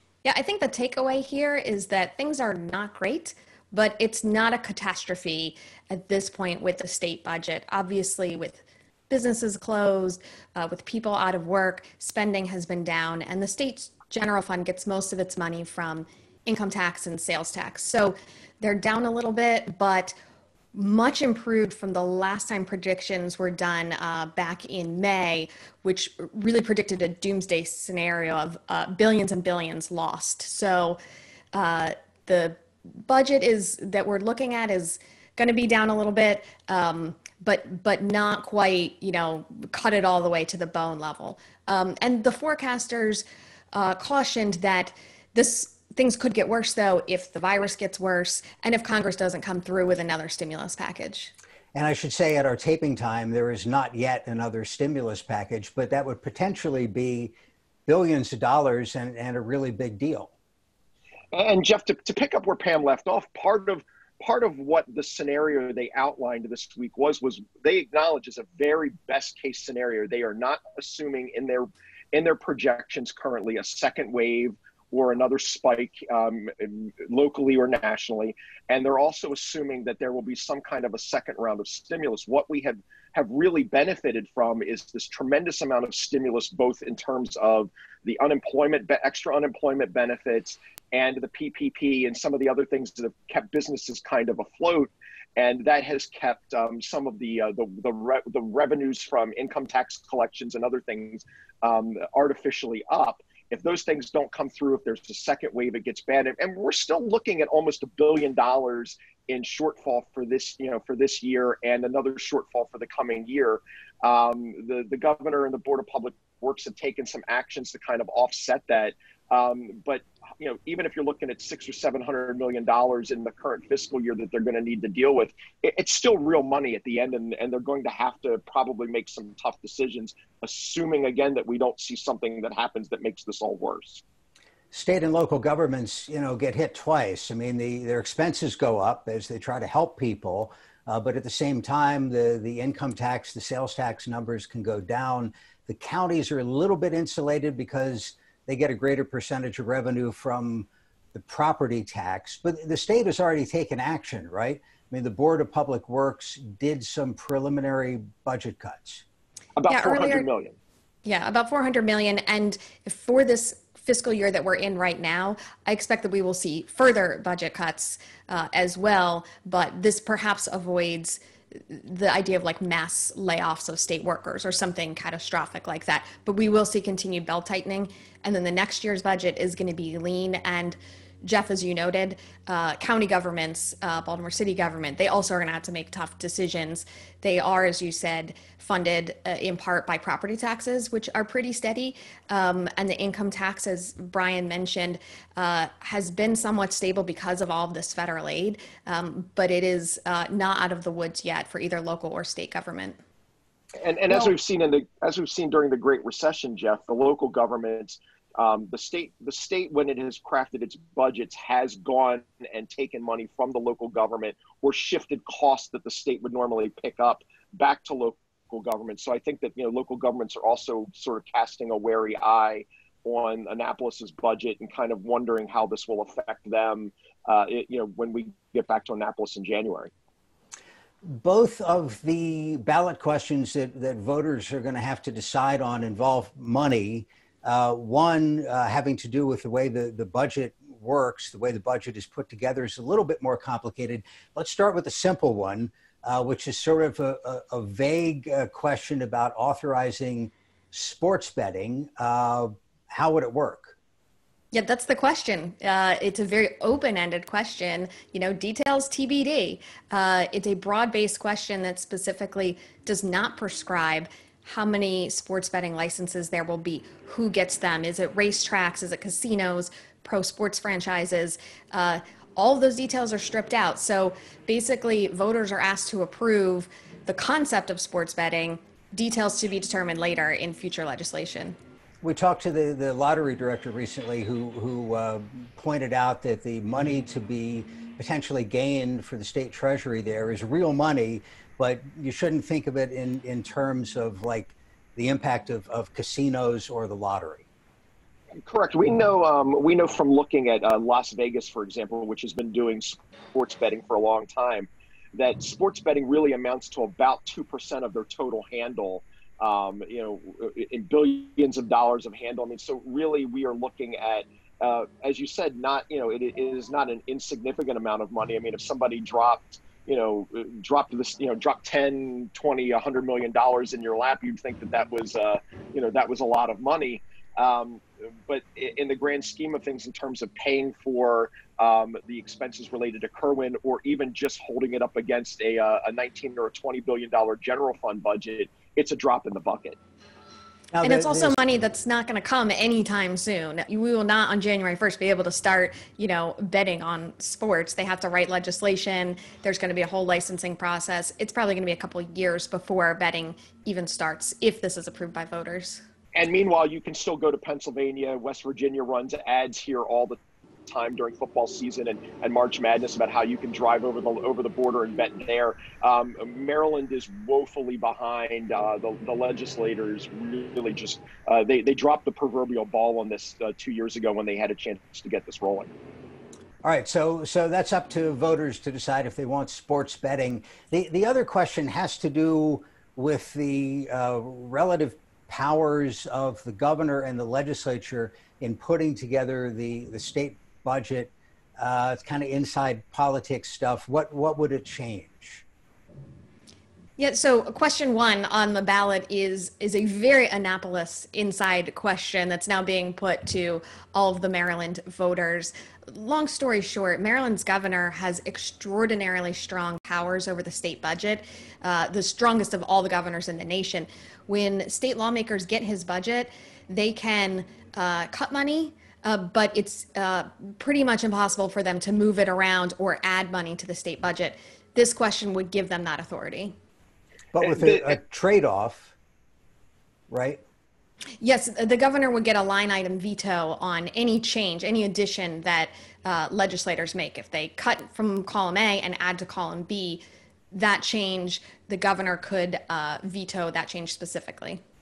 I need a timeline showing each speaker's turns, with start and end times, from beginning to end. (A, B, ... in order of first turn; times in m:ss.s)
0:00.2-0:20.2 A
0:20.7-0:31.0 A
0:31.5-0:51.3 A
0:51.7-0:57.3 B
0:57.9-1:00.3 B
1:01.3-2:14.0 C
2:14.7-2:39.0 B
2:39.6-2:40.6 C
2:39.7-2:40.3 A
2:41.0-3:23.0 A
3:23.8-3:49.9 C
3:24.1-3:24.3 A
3:51.0-4:13.7 B
4:14.5-4:41.6 A
4:42.0-4:57.4 B
4:58.4-5:39.8 C
5:40.7-5:41.4 B
5:40.8-5:55.8 A
5:56.1-6:15.7 C
6:16.6-6:35.4 B
6:37.0-7:06.5 A
7:07.3-7:08.9 B
7:07.5-7:07.8 C
7:10.1-7:10.4 B
7:11.2-7:24.6 A